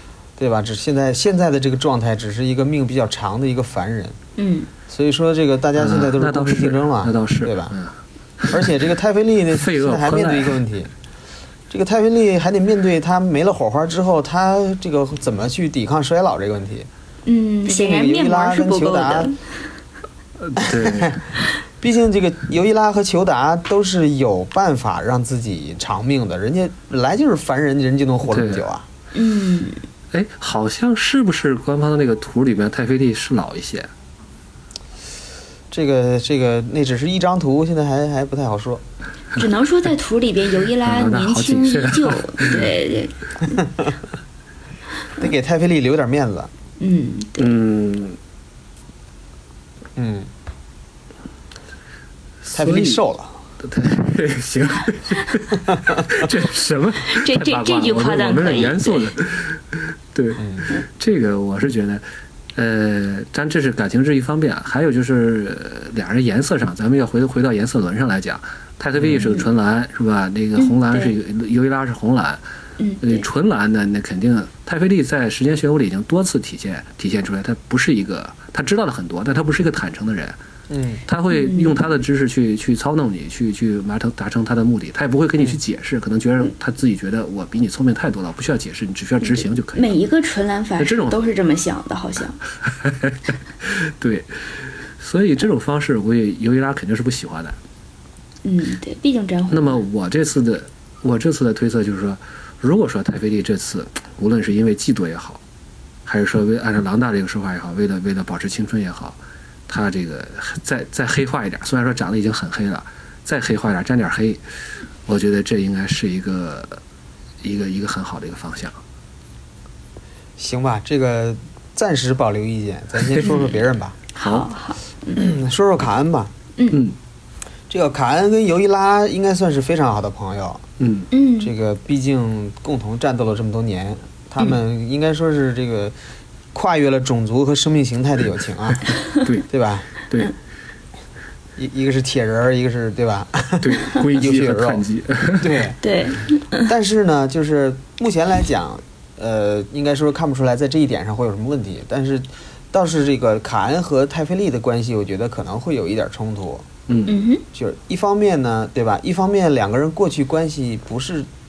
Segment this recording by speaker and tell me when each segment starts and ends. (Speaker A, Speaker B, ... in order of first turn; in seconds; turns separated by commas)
Speaker A: 0.4-4.2, Speaker B: 4.4-4.7, Speaker A: 4.9-7.8, Speaker C: 5.8-8.7, Speaker A: 8.5-10.9, Speaker C: 9.5-10.6, Speaker A: 11.7-16.9, Speaker B: 17.2-19.4, Speaker A: 17.7-19.3, Speaker C: 20.4-21.2, Speaker A: 20.6-28.9, Speaker C: 28.3-28.6, Speaker B: 29.1-29.8, Speaker C: 30.1-33.9, Speaker A: 35.7-38.8, Speaker B: 39.4-43.6, Speaker C: 40.8-42.7, Speaker A: 45.2-46.5, Speaker B: 46.8-47.5, Speaker C: 47.4-48.2, Speaker A: 50.0-50.3, Speaker C: 52.4-53.0, Speaker A: 52.5-53.4, Speaker C: 53.6-62.0, Speaker A: 55.7-56.0, Speaker B: 57.0-59.1, Speaker A: 60.4-60.7, Speaker C: 62.5-72.4, Speaker A: 69.0-69.3, Speaker B: 69.2-69.5, Speaker B: 70.6-71.2, Speaker B: 72.8-73.2, Speaker C: 73.0-80.4, Speaker A: 80.7-81.0, Speaker C: 81.1-89.9, Speaker B: 81.3-81.8, Speaker B: 89.2-92.4, Speaker C: 90.8-91.2, Speaker C: 92.8-97.6, Speaker B: 98.5-99.8, Speaker C: 99.5-105.4, Speaker C: 106.1-114.4, Speaker C: 115.1-116.8, Speaker C: 117.4-118.8, Speaker A: 120.4-124.0, Speaker B: 123.2-123.5, Speaker B: 124.2-125.3, Speaker C: 124.2-124.5, Speaker A: 125.1-126.3, Speaker C: 126.7-127.0, Speaker A: 127.7-130.6, Speaker C: 130.8-131.1, Speaker B: 131.1-131.5, Speaker A: 131.4-135.9, Speaker A: 136.5-138.8, Speaker C: 139.2-139.5, Speaker A: 139.5-139.9, Speaker C: 140.0-140.3, Speaker A: 141.6-144.8, Speaker C: 143.6-145.7, Speaker A: 145.4-145.8, Speaker B: 145.8-146.7, Speaker A: 146.6-156.7, Speaker C: 156.9-157.2, Speaker B: 157.1-157.4, Speaker A: 157.5-161.3